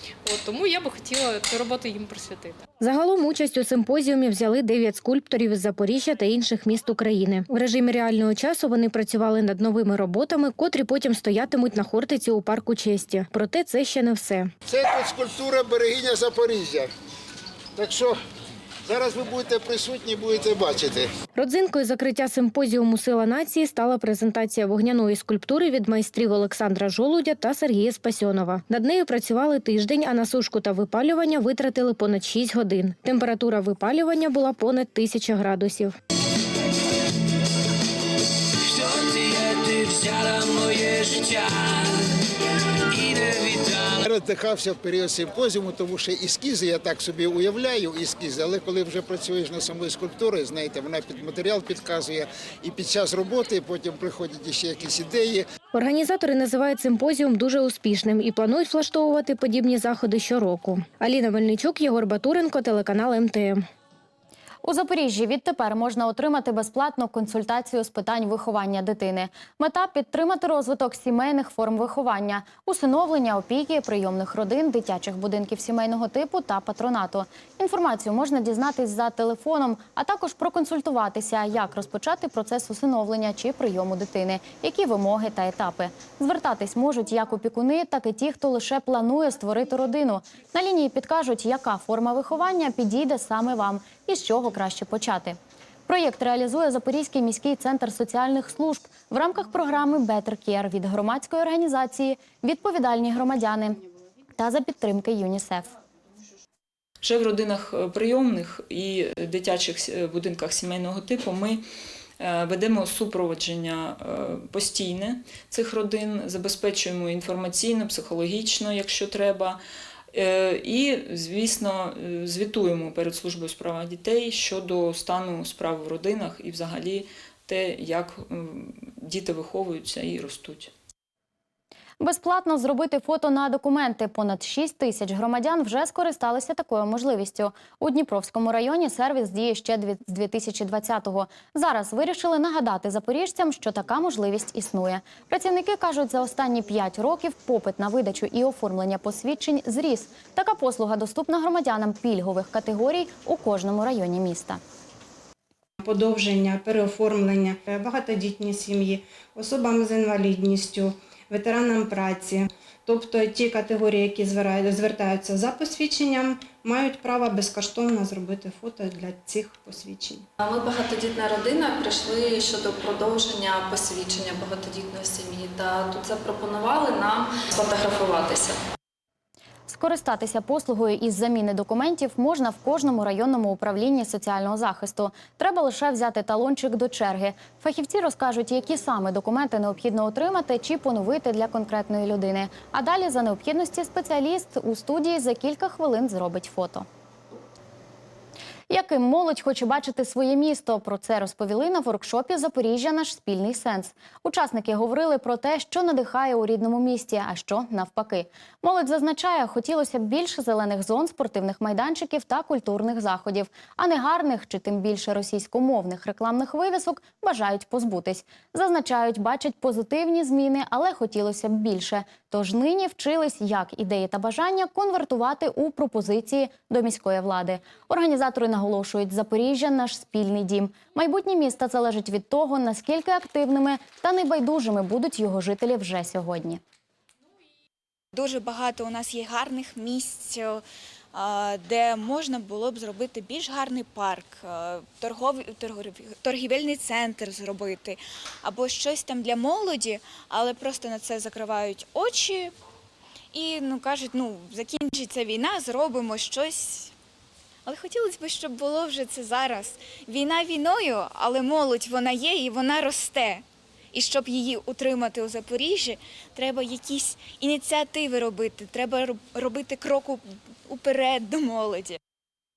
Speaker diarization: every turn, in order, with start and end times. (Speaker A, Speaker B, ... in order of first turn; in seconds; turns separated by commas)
Speaker A: 0.2-2.6, Speaker B: 2.8-14.5, Speaker C: 14.7-16.9, Speaker C: 17.8-18.2, Speaker C: 18.9-21.1, Speaker B: 21.4-35.9, Speaker D: 38.6-42.1, Speaker D: 42.9-44.0, Speaker C: 44.0-55.5, Speaker B: 55.7-63.6, Speaker E: 64.6-103.8, Speaker E: 104.3-105.7, Speaker F: 107.0-111.6, Speaker F: 112.2-119.6, Speaker F: 120.1-130.7, Speaker E: 132.0-154.6, Speaker G: 155.8-170.3, Speaker H: 170.4-178.6, Speaker E: 179.7-196.9, Speaker E: 198.7-236.6, Speaker I: 238.1-252.5, Speaker I: 253.3-256.9, Speaker I: 257.6-272.0